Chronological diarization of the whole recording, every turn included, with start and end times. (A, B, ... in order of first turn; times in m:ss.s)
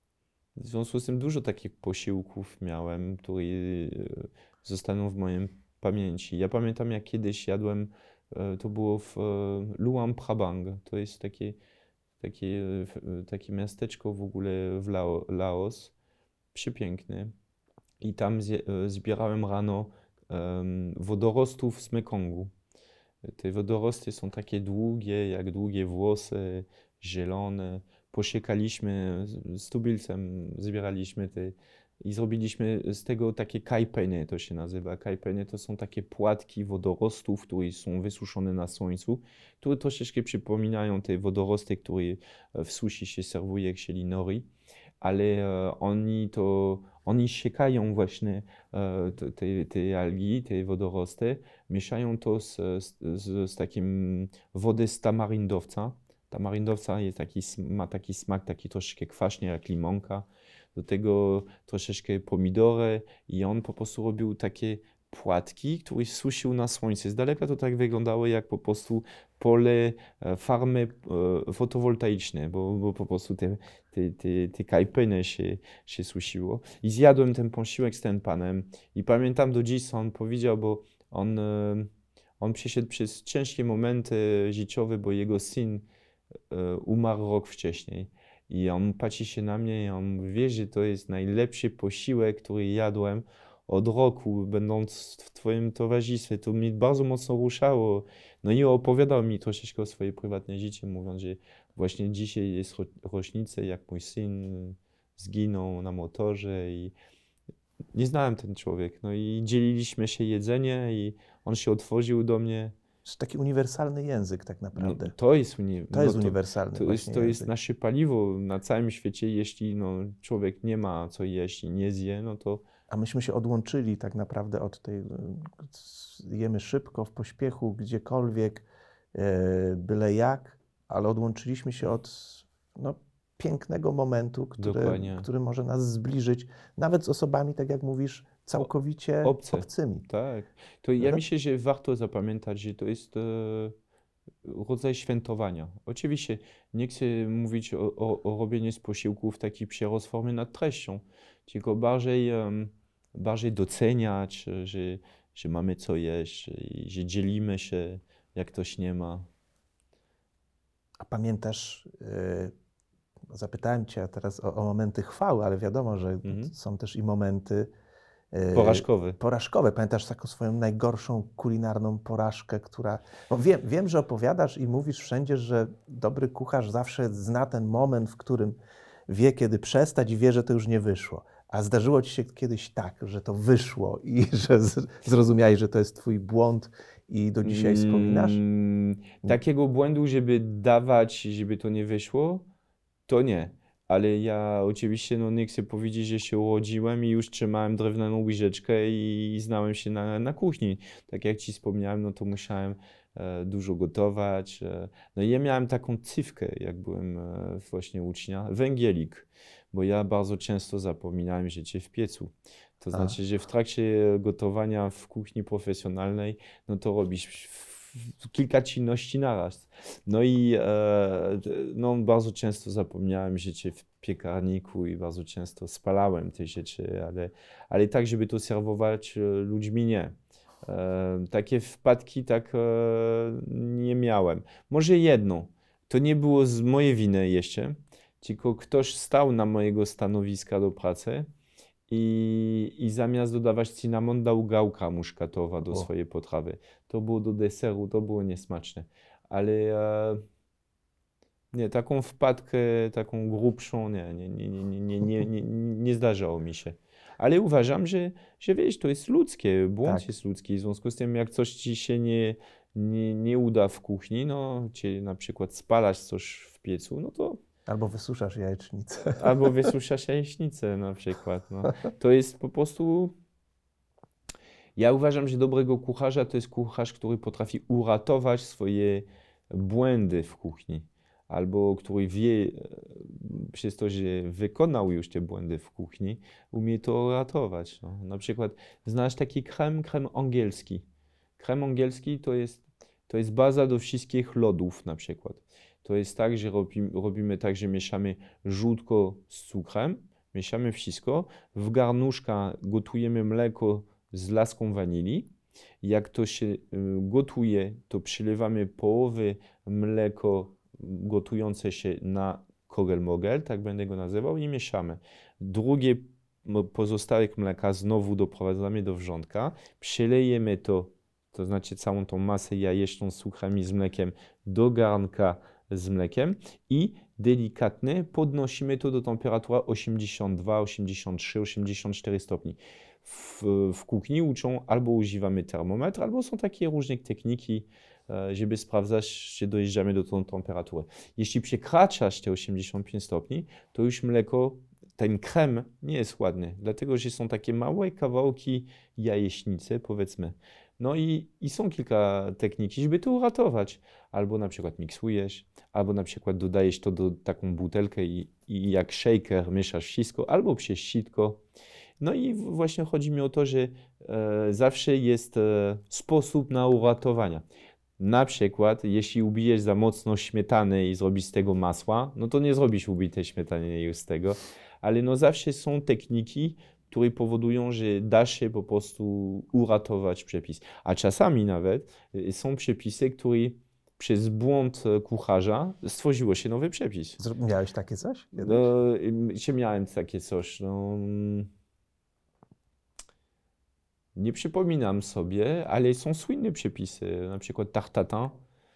0:00.6-0:11.6 A
0:12.2-0:15.9 A
0:16.5-0:17.3 A
0:18.0-0:22.5 A
0:23.3-0:44.5 A
0:45.0-1:21.9 A
1:22.4-1:25.8 A
1:26.5-1:46.9 A
1:47.9-1:52.7 A
1:53.0-1:55.1 B
1:54.7-2:02.6 A
1:55.9-1:57.5 B
2:02.9-2:20.0 B
2:14.6-2:15.3 A
2:19.2-2:23.7 A
2:24.4-2:39.3 A
2:41.0-2:42.5 B
2:43.3-2:47.7 B
2:46.2-2:46.5 A
2:48.3-2:58.6 B
2:48.5-2:49.2 A
2:59.1-3:08.4 B
3:07.4-3:12.4 A
3:13.1-4:01.3 A
4:01.9-4:10.2 A
4:11.5-4:27.4 A
4:27.7-4:29.7 B
4:29.1-4:33.1 A
4:34.8-4:50.8 A
4:51.4-5:05.3 A
5:05.8-6:01.4 A
6:02.0-6:07.4 A
6:08.0-6:27.2 A
6:27.2-6:28.7 B
6:28.4-6:31.5 A
6:34.2-6:38.4 A